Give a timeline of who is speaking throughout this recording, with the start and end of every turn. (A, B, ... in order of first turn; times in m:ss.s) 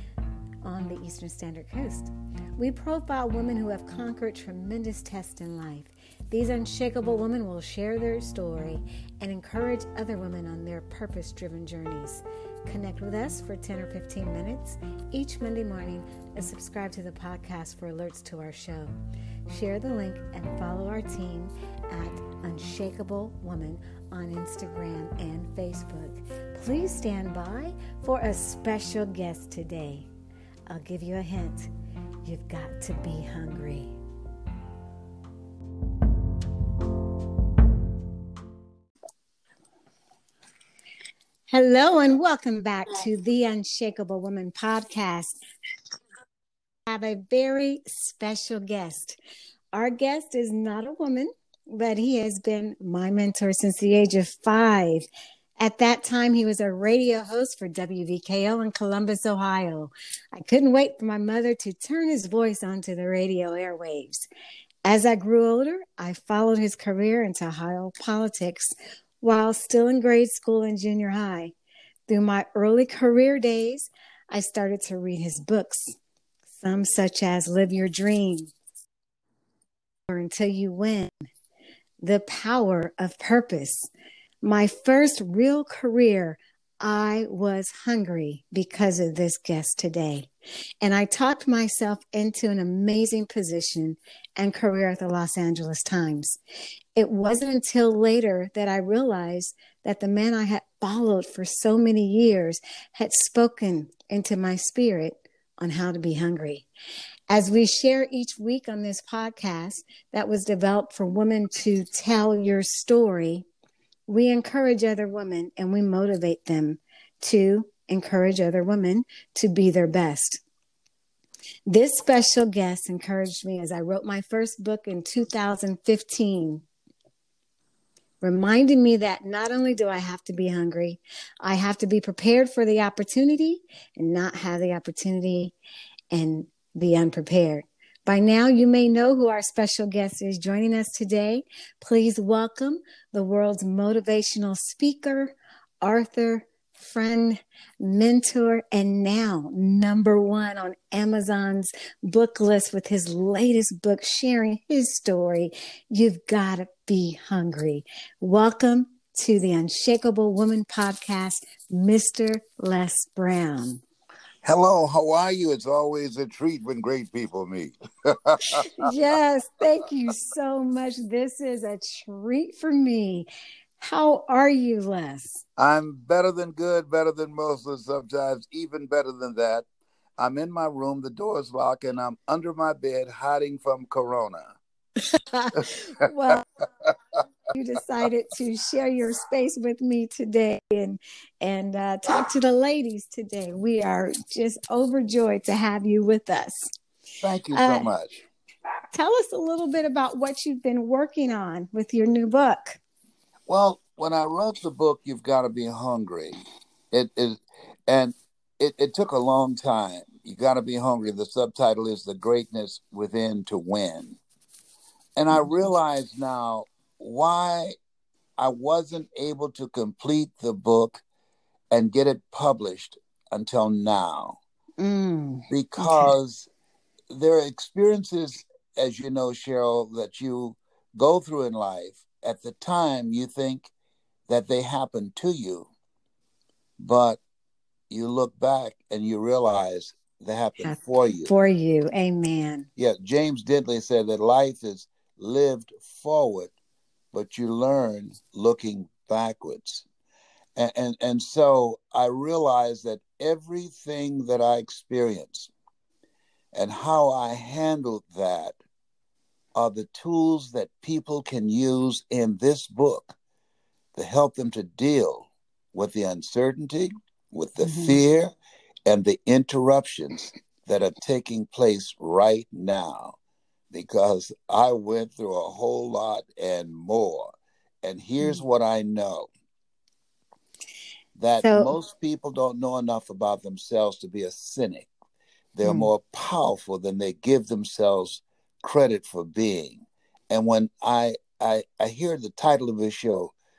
0:00.6-0:18.9 A
0:19.5-0:30.1 A
0:30.7-0:31.7 A
0:32.2-0:33.9 A
0:41.5-0:45.4 A
0:46.9-0:49.2 A
0:49.7-0:55.1 A
0:55.6-1:04.3 A
1:04.8-1:11.5 A
1:12.1-1:16.0 A
1:16.6-1:18.5 A
1:20.1-1:21.2 A
1:22.0-1:23.9 A
1:24.4-1:30.3 A
1:30.8-1:36.4 A
1:37.0-1:46.7 A
1:47.3-1:53.5 A
1:54.1-2:00.4 A
2:01.7-2:06.6 A
2:08.2-2:15.6 A
2:16.1-2:43.8 A
2:44.4-2:48.8 B
2:48.8-2:53.3 A
2:53.8-2:55.4 A
2:55.6-2:59.7 B
3:00.2-3:04.6 B
3:05.1-3:06.5 A
3:07.5-3:16.7 A
3:17.2-3:18.2 B
3:17.5-3:17.9 A
3:18.9-3:22.8 A
3:23.5-3:26.4 B
3:26.9-3:34.2 B
3:35.2-3:37.8 B
3:38.4-3:41.0 B
3:41.7-3:44.4 B
3:44.8-3:46.1 A
3:45.5-3:46.5 B
3:47.1-3:53.7 B
3:54.3-3:55.7 B
3:56.8-3:57.2 B
3:57.9-4:01.3 B
4:00.6-4:02.7 A
4:02.8-4:06.5 B
4:07.1-4:09.9 B
4:10.6-4:15.5 B
4:16.5-4:18.6 B
4:19.6-4:23.2 B
4:24.0-4:28.4 B
4:27.6-4:28.0 A
4:28.9-4:33.2 B
4:33.7-4:39.3 B
4:41.2-4:44.9 B
4:41.4-4:41.7 A
4:45.6-4:53.3 B
4:45.6-4:45.9 A